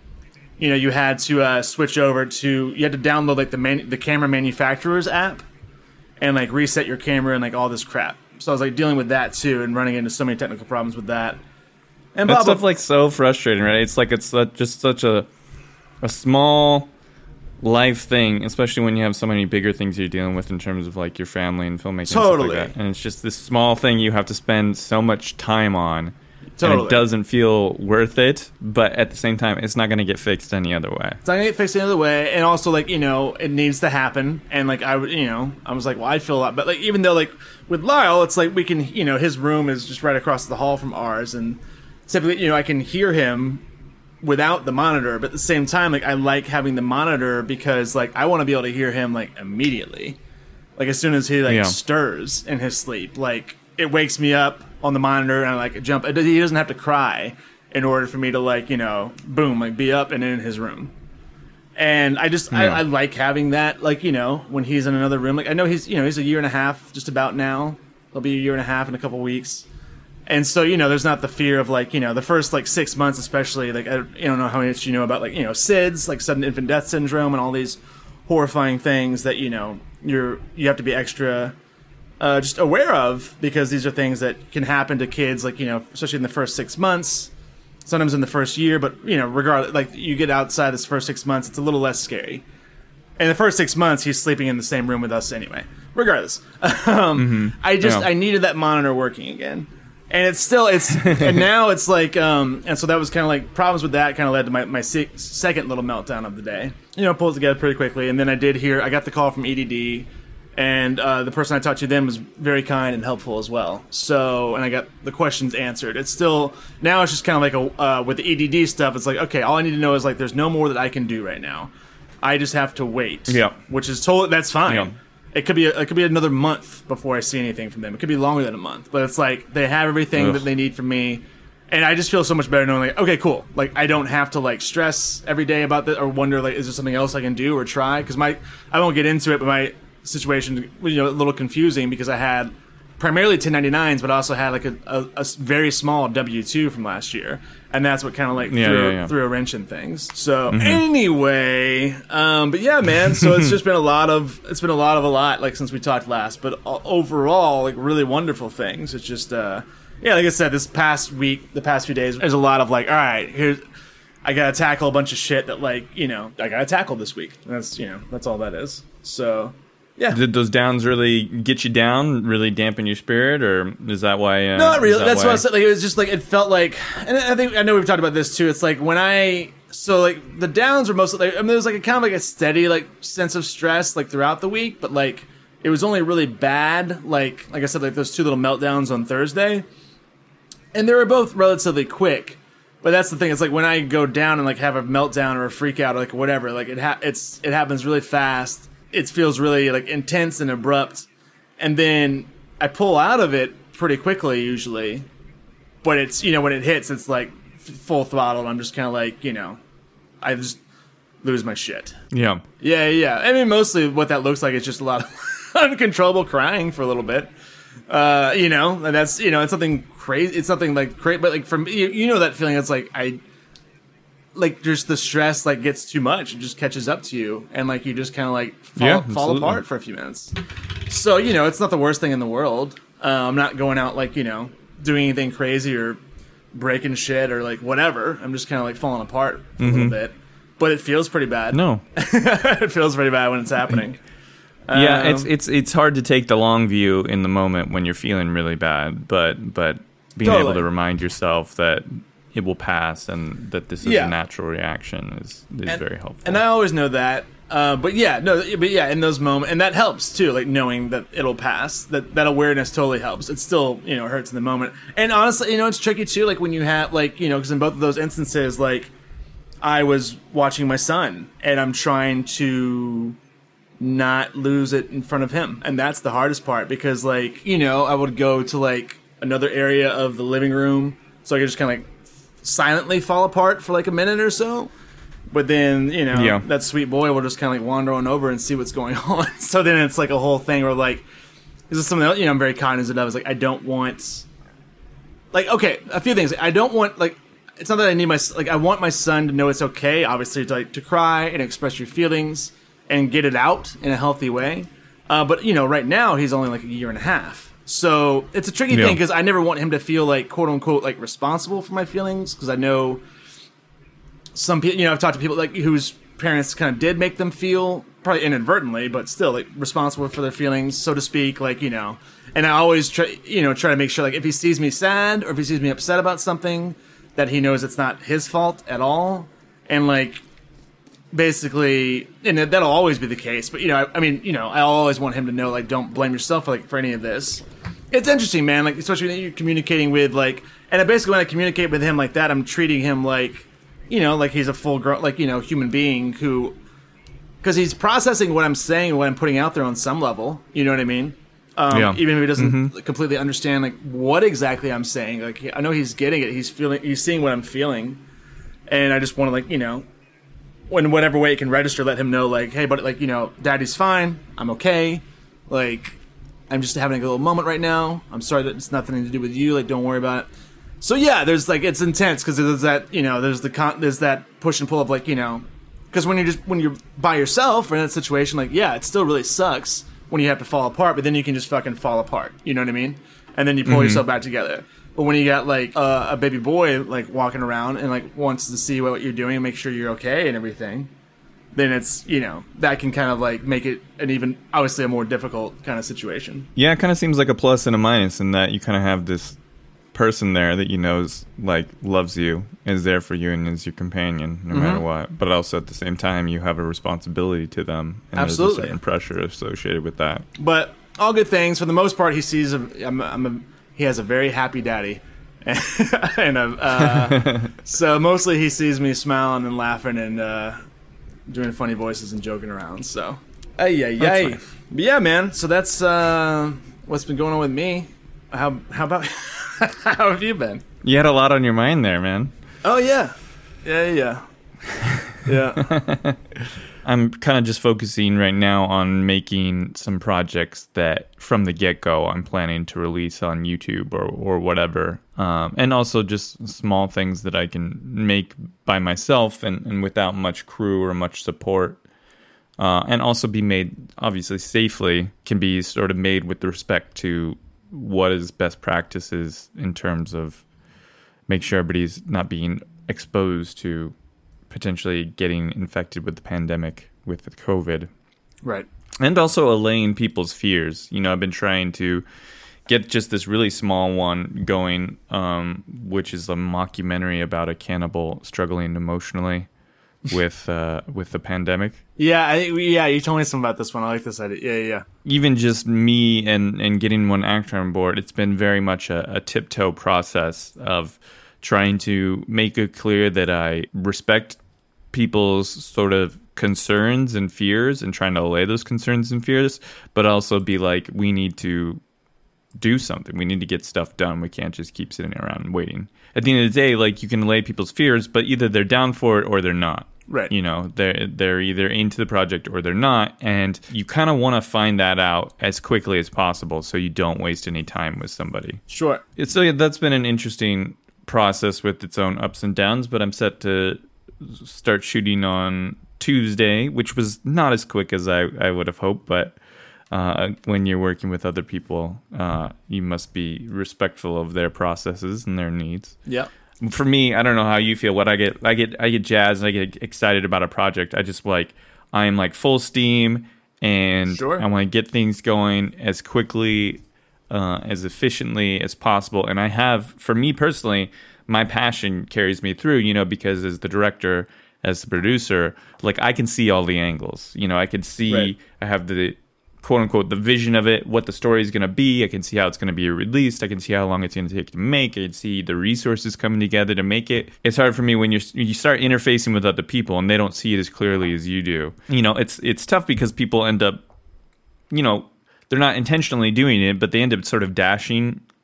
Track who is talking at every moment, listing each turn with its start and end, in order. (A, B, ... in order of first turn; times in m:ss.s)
0:00.6-0:05.4 A
0:06.2-0:11.4 A
0:12.1-0:12.6 A
0:12.2-0:15.3 B
0:16.0-0:16.9 B
0:17.6-0:31.2 B
0:22.1-0:22.7 A
0:26.6-0:27.0 A
0:31.2-0:43.6 A
0:44.2-0:50.2 A
0:50.8-1:00.9 A
0:51.5-0:51.8 B
1:01.8-1:09.6 A
1:02.5-1:02.8 B
1:10.3-1:21.5 A
1:22.2-1:27.3 A
1:27.8-1:32.4 A
1:33.2-2:01.7 A
1:37.2-1:38.1 B
1:41.0-1:41.4 B
2:02.2-2:43.6 A
2:03.3-2:03.6 B
2:04.7-2:04.9 B
2:10.1-2:10.5 B
2:28.5-2:29.1 B
2:30.5-2:30.8 B
2:33.2-2:33.5 B
2:44.2-2:50.2 A
2:50.1-2:55.4 B
2:54.5-3:09.6 A
3:10.7-3:21.1 A
3:21.6-3:25.1 A
3:25.8-3:29.6 A
3:30.2-3:30.6 A
3:31.2-3:32.0 A
3:32.1-3:32.4 B
3:32.6-3:37.3 A
3:37.9-3:43.2 A
3:44.3-3:56.0 A
3:48.8-3:49.6 B
3:56.5-4:04.0 A
3:59.6-4:00.0 B
4:01.5-4:01.8 B
4:04.7-4:05.3 A
4:04.7-4:16.4 B
4:10.2-4:10.6 A
4:13.8-4:14.1 A
4:15.7-4:28.9 A
4:29.6-4:33.2 A
4:33.8-4:44.7 A
4:45.3-4:51.0 A
4:46.1-4:46.4 B
4:51.7-4:54.2 A
4:55.3-5:13.0 A
5:08.7-5:09.0 B
5:14.3-5:30.2 A
5:31.1-5:46.5 A
5:47.4-5:58.0 A
5:51.7-5:52.7 B
5:58.7-5:59.8 A
6:00.7-6:06.0 A
6:06.5-6:10.3 A
6:10.8-6:30.9 A
6:23.6-6:24.0 B
6:31.5-6:36.5 A
6:36.6-6:39.4 B
6:39.9-6:50.2 B
6:44.5-6:44.8 A
6:48.1-6:48.8 A
6:50.4-7:00.6 A
6:56.8-6:57.5 B
7:01.3-7:10.6 A
7:04.0-7:04.4 B
7:10.8-7:12.3 B
7:12.6-7:14.2 A
7:14.8-7:31.8 B
7:15.2-7:15.8 A
7:32.6-7:40.4 B
7:41.3-7:43.9 B
7:44.5-7:47.9 B
7:49.0-7:52.0 B
7:52.7-7:59.5 B
8:00.1-8:01.8 B
8:02.0-8:04.8 A
8:05.0-8:14.4 B
8:14.9-8:21.8 B
8:22.6-8:38.6 B
8:30.1-8:30.3 A
8:38.7-8:39.0 A
8:39.2-8:49.4 B
8:49.9-8:56.0 B
8:56.6-9:33.8 B
9:04.1-9:04.4 A
9:34.7-9:38.2 B